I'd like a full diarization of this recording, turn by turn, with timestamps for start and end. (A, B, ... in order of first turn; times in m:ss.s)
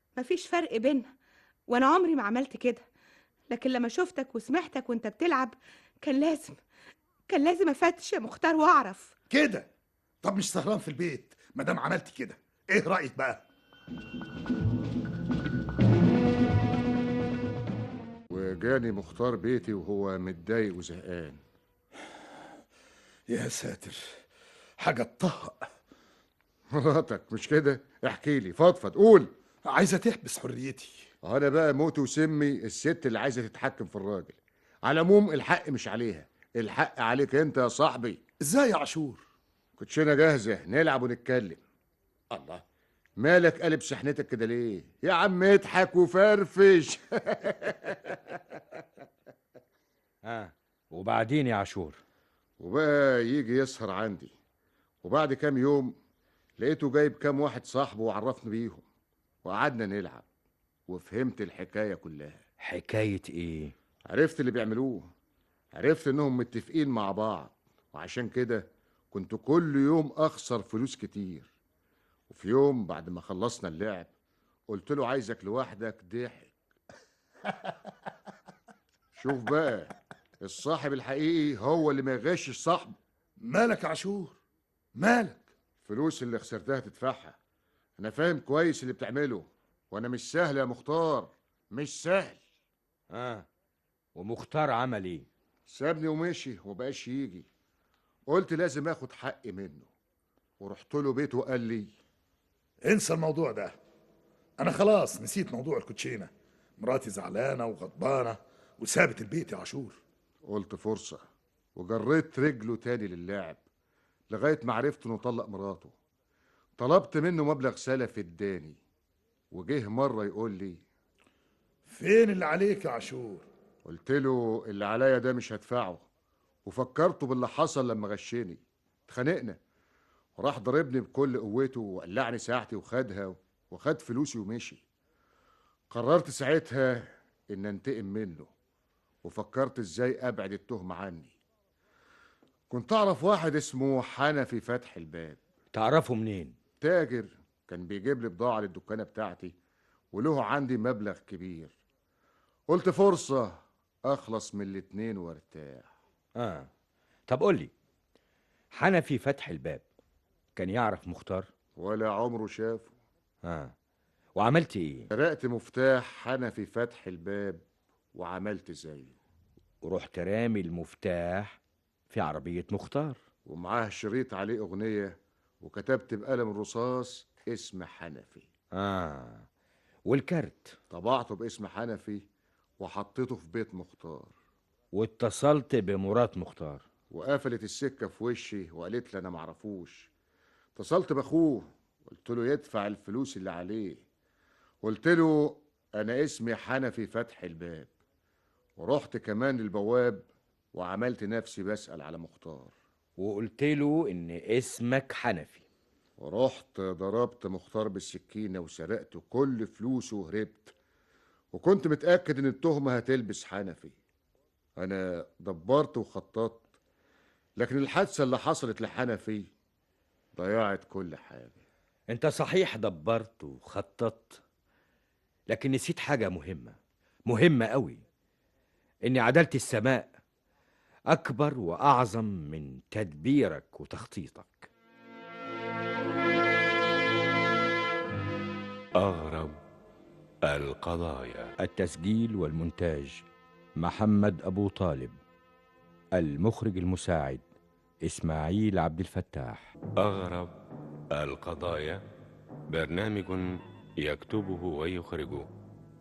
0:00.2-0:01.1 A
0:01.7-0:02.8 A
0:03.5-0:06.6 A
0:07.3-0:09.1 A
0:09.3-0:09.7 B
0:10.2-0:13.4 B
0:18.3-0:21.4 C
0:23.3-0:24.2 B
0:24.8-0:25.7 B
0:26.7-0:29.3 C
0:29.6-0:31.1 B
0:31.2-0:38.2 C
0:38.4-0:39.2 B
0:39.8-0:41.6 C
0:42.3-0:42.6 C
0:43.2-0:48.4 C
0:50.2-0:52.0 D
0:52.6-0:54.3 C
0:55.0-0:56.0 C
0:56.6-0:58.8 C
0:59.4-1:00.2 C
1:00.9-1:02.4 C
1:02.6-1:03.7 D
1:04.1-1:05.1 C
1:05.7-1:11.5 C
1:12.3-1:14.1 C
1:14.7-1:16.5 C
1:19.2-1:23.0 C
1:23.4-1:24.4 B
1:24.9-1:25.5 B
1:25.8-1:27.4 C
1:28.0-1:32.4 C
1:33.1-1:33.4 D
1:34.1-1:35.3 D
1:35.7-1:37.4 C
1:38.3-1:39.9 C
1:40.6-1:41.9 C
1:42.8-1:43.7 B
1:44.6-1:50.0 B
1:50.4-1:51.2 C
1:51.8-1:53.6 C
1:54.3-1:55.9 C
1:56.8-1:58.8 C
1:59.5-2:00.8 C
2:01.8-2:03.5 B
2:03.8-2:06.0 C
2:06.6-2:09.6 C
2:10.4-2:14.8 C
2:15.9-2:18.5 C
2:19.2-2:21.3 C
2:22.7-2:25.4 C
2:25.7-2:26.6 D
2:26.8-2:29.5 C
2:30.1-2:31.8 C
2:32.7-2:35.9 C
2:36.4-2:36.7 D
2:37.3-2:37.7 D
2:38.7-2:39.8 D
2:40.6-2:41.5 D
2:41.8-2:42.9 C
2:43.4-2:43.7 D
2:44.3-2:45.1 D
2:45.1-2:47.6 C
2:48.1-2:49.1 C
2:49.8-2:51.6 D
2:52.1-2:53.2 D
2:53.4-2:58.5 C
2:58.7-2:59.5 D
3:00.0-3:00.8 D
3:00.9-3:02.2 C
3:02.8-3:04.3 C
3:04.9-3:06.8 D
3:07.1-3:10.1 C
3:10.8-3:14.0 C
3:14.8-3:17.9 C
3:18.8-3:22.7 C
3:23.2-3:25.6 D
3:26.2-3:30.7 C
3:31.5-3:33.9 C
3:34.8-3:36.6 C
3:37.6-3:39.5 C
3:40.4-3:41.6 C
3:42.1-3:44.4 D
3:45.5-3:48.0 D
3:49.0-3:50.1 D
3:51.1-3:54.7 D
3:59.0-3:59.6 E
4:00.4-4:01.5 E
4:01.6-4:03.2 D
4:03.8-4:05.2 D
4:06.1-4:07.4 D
4:08.0-4:09.7 D
4:10.0-4:10.5 E
4:11.1-4:12.0 E
4:12.7-4:15.4 E